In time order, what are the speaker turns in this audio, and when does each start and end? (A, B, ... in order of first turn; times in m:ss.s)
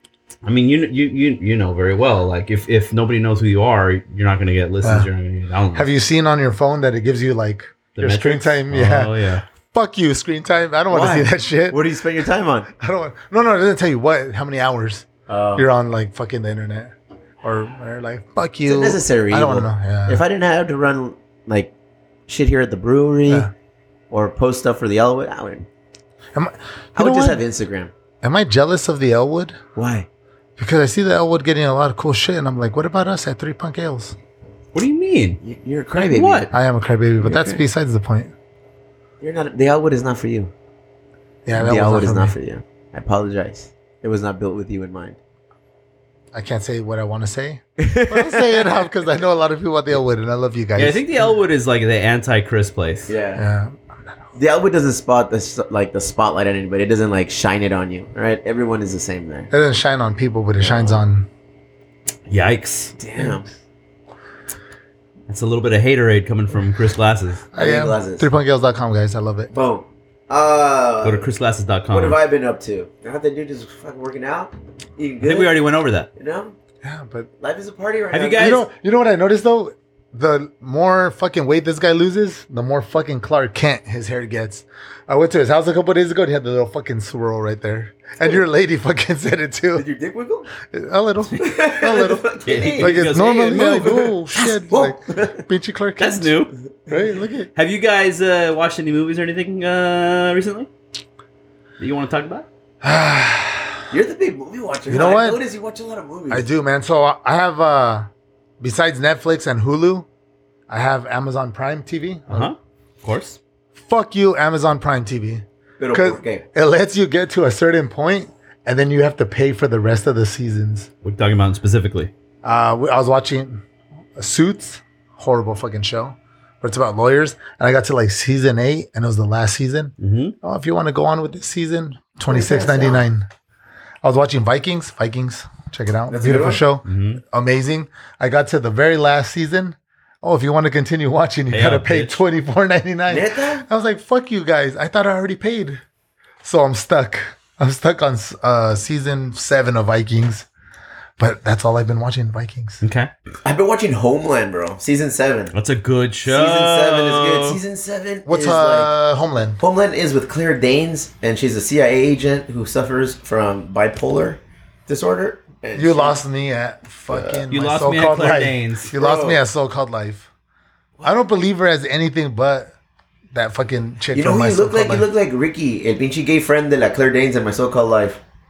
0:00.4-0:05.9 A
0:04.8-0:05.1 B
0:05.7-0:09.1 B
0:07.9-0:09.4 A
0:09.7-0:11.9 B
0:10.9-0:12.7 C
0:12.8-0:20.2 B
0:15.3-0:15.6 C
0:18.6-0:21.7 C
0:22.3-0:23.5 C
0:23.3-0:23.5 B
0:24.1-0:25.6 C
0:26.3-0:27.4 B
0:26.9-0:27.9 C
0:28.2-0:29.6 B
0:29.7-0:30.1 C
0:30.6-0:34.2 B
0:34.7-0:35.4 A
0:35.4-0:36.5 C
0:35.9-0:36.5 A
0:36.5-0:38.3 B
0:37.2-0:37.6 C
0:39.2-0:40.5 C
0:41.4-0:42.4 B
0:41.6-0:45.2 C
0:46.3-0:51.0 B
0:47.8-0:48.7 C
0:50.8-0:53.1 A
0:53.1-0:53.4 C
0:53.4-0:53.8 B
0:54.3-0:59.5 C
0:59.5-1:01.3 B
1:00.6-1:01.0 C
1:02.3-1:03.0 A
1:03.0-1:03.4 C
1:03.2-1:03.4 B
1:05.3-1:07.4 A
1:07.5-1:09.5 B
1:07.6-1:08.3 C
1:09.5-1:11.3 C
1:11.0-1:12.2 A
1:11.9-1:15.6 C
1:15.2-1:16.1 A
1:16.2-1:16.6 C
1:16.8-1:17.3 B
1:17.4-1:18.6 C
1:18.1-1:18.6 A
1:18.4-1:29.8 B
1:29.7-1:30.5 C
1:30.6-1:36.3 B
1:31.4-1:35.4 C
1:32.4-1:34.0 A
1:36.0-1:36.5 A
1:36.9-1:37.5 B
1:37.5-1:40.7 A
1:41.8-1:42.5 A
1:42.8-1:43.8 B
1:43.9-1:46.5 C
1:44.9-1:45.4 B
1:46.3-1:48.1 B
1:48.6-1:50.0 B
1:50.7-1:52.5 B
1:52.3-1:53.4 A
1:53.8-2:00.9 B
1:55.8-1:56.4 C
2:01.0-2:02.1 A
2:02.4-2:03.6 B
2:04.2-2:13.3 B
2:10.0-2:10.3 A
2:12.3-2:13.0 C
2:14.0-2:25.8 B
2:16.1-2:16.6 C
2:16.8-2:17.2 A
2:21.5-2:22.2 A
2:23.1-2:23.6 C
2:26.4-2:30.5 B
2:31.2-2:32.8 B
2:32.8-2:33.1 A
2:33.4-2:35.5 C
2:35.5-2:37.6 A
2:36.2-2:38.9 C
2:38.2-2:39.6 B
2:39.6-2:46.2 C
2:45.7-2:50.3 B
2:47.1-2:47.4 C
2:47.5-2:48.9 A
2:48.9-2:49.4 C
2:51.0-2:52.7 B
2:53.3-2:55.1 B
2:54.1-2:58.2 C